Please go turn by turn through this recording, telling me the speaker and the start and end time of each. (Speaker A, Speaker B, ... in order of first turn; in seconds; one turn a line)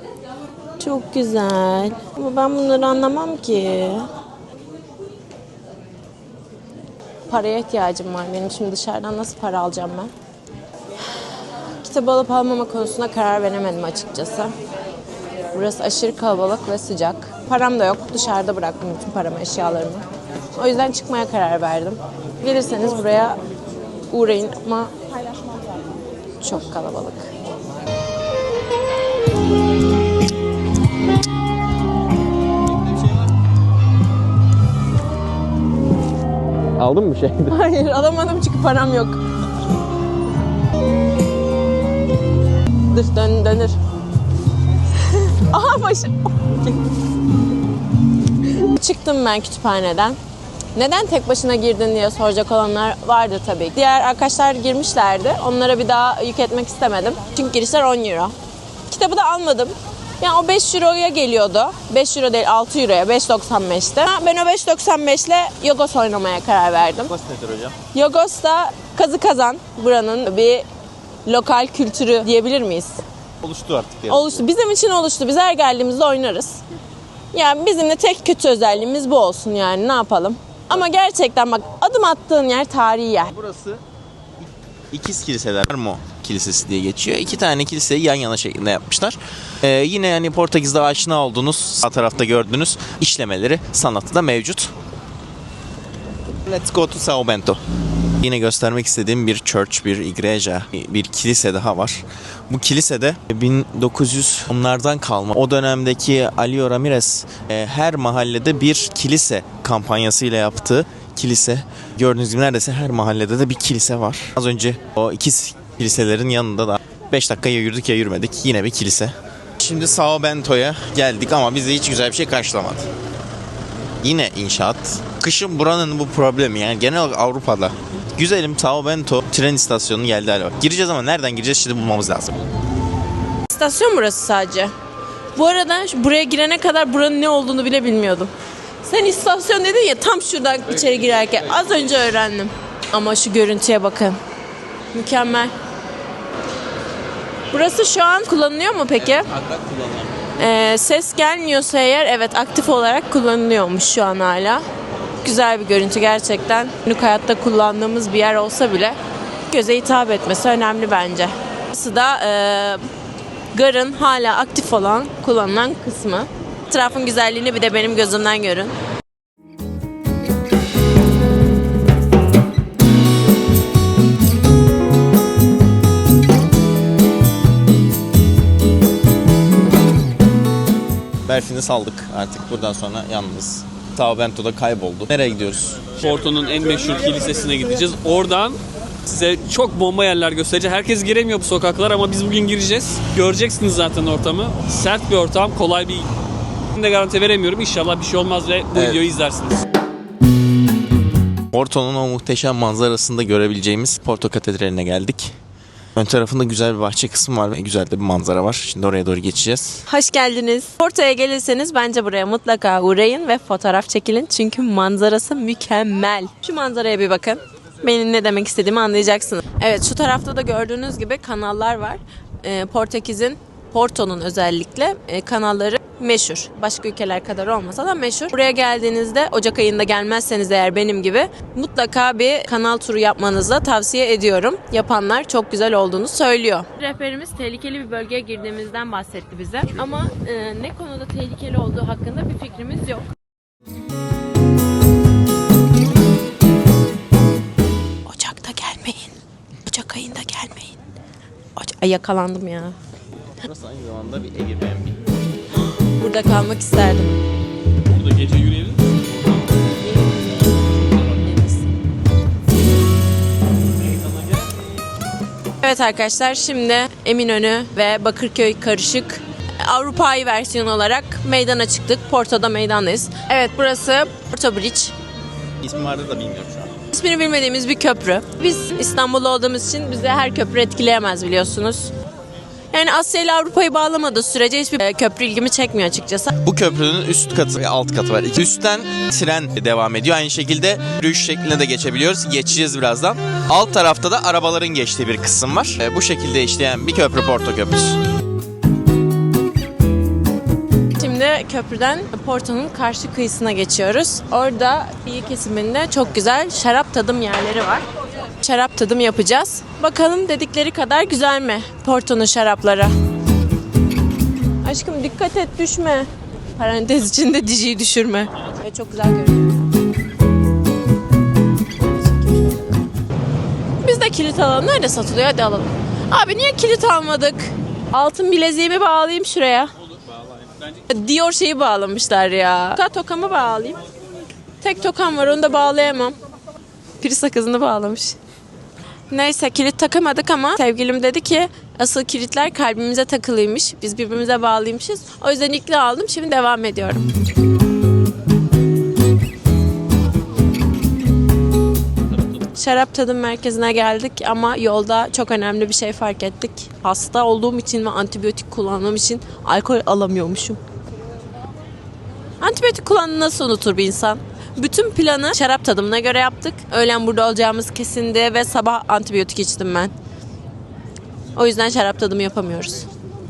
Speaker A: 0.8-4.1
Speaker A: 7.3-10.1
Speaker A: 11.8-14.5
Speaker A: 15.5-23.4
Speaker A: 24.1-24.9
Speaker A: 26.4-27.3
Speaker B: 36.8-37.6
Speaker A: 37.5-39.2
Speaker A: 42.9-43.8
Speaker A: 45.0-46.5
Speaker A: 48.6-50.2
Speaker A: 50.8-58.3
Speaker A: 58.9-67.1
Speaker B: 67.0-67.8
Speaker A: 67.9-70.7
Speaker A: 71.3-73.0
Speaker B: 73.4-74.5
Speaker A: 74.1-76.6
Speaker A: 77.3-83.3
Speaker B: 83.3-83.8
Speaker B: 84.4-94.7
Speaker B: 96.5-97.6
Speaker B: 98.2-122.8
Speaker B: 124.0-132.4
Speaker A: 133.5-134.7
Speaker A: 135.4-138.3
Speaker A: 138.8-144.2
Speaker B: 140.8-142.1
Speaker A: 144.9-145.5
Speaker A: 147.5-149.3
Speaker B: 149.0-150.3
Speaker A: 150.4-154.7
Speaker A: 155.2-159.0
Speaker A: 159.5-162.8
Speaker A: 163.5-168.7
Speaker B: 181.2-185.9
Speaker C: 185.9-196.1
Speaker C: 196.8-199.6
Speaker B: 198.8-199.1
Speaker B: 201.5-205.3
Speaker B: 205.9-209.8
Speaker A: 209.9-243.1
Speaker A: 248.1-250.8
Speaker A: 251.6-252.8
Speaker B: 253.4-255.1
Speaker A: 256.0-257.2
Speaker C: 257.9-258.8
Speaker A: 259.9-260.5
Speaker A: 261.0-261.6
Speaker A: 265.6-274.9
Speaker B: 275.6-276.8
Speaker A: 276.9-281.9
Speaker A: 282.7-286.3
Speaker B: 286.4-298.0
Speaker A: 301.0-307.9
Speaker A: 308.4-312.9
Speaker A: 314.6-319.7
Speaker A: 321.8-322.8
Speaker A: 323.8-329.7
Speaker C: 329.9-330.8
Speaker A: 330.9-333.8
Speaker A: 334.6-336.1
Speaker A: 337.0-338.2
Speaker A: 339.1-347.1
Speaker A: 352.5-360.6
Speaker A: 362.4-369.9
Speaker A: 371.4-372.9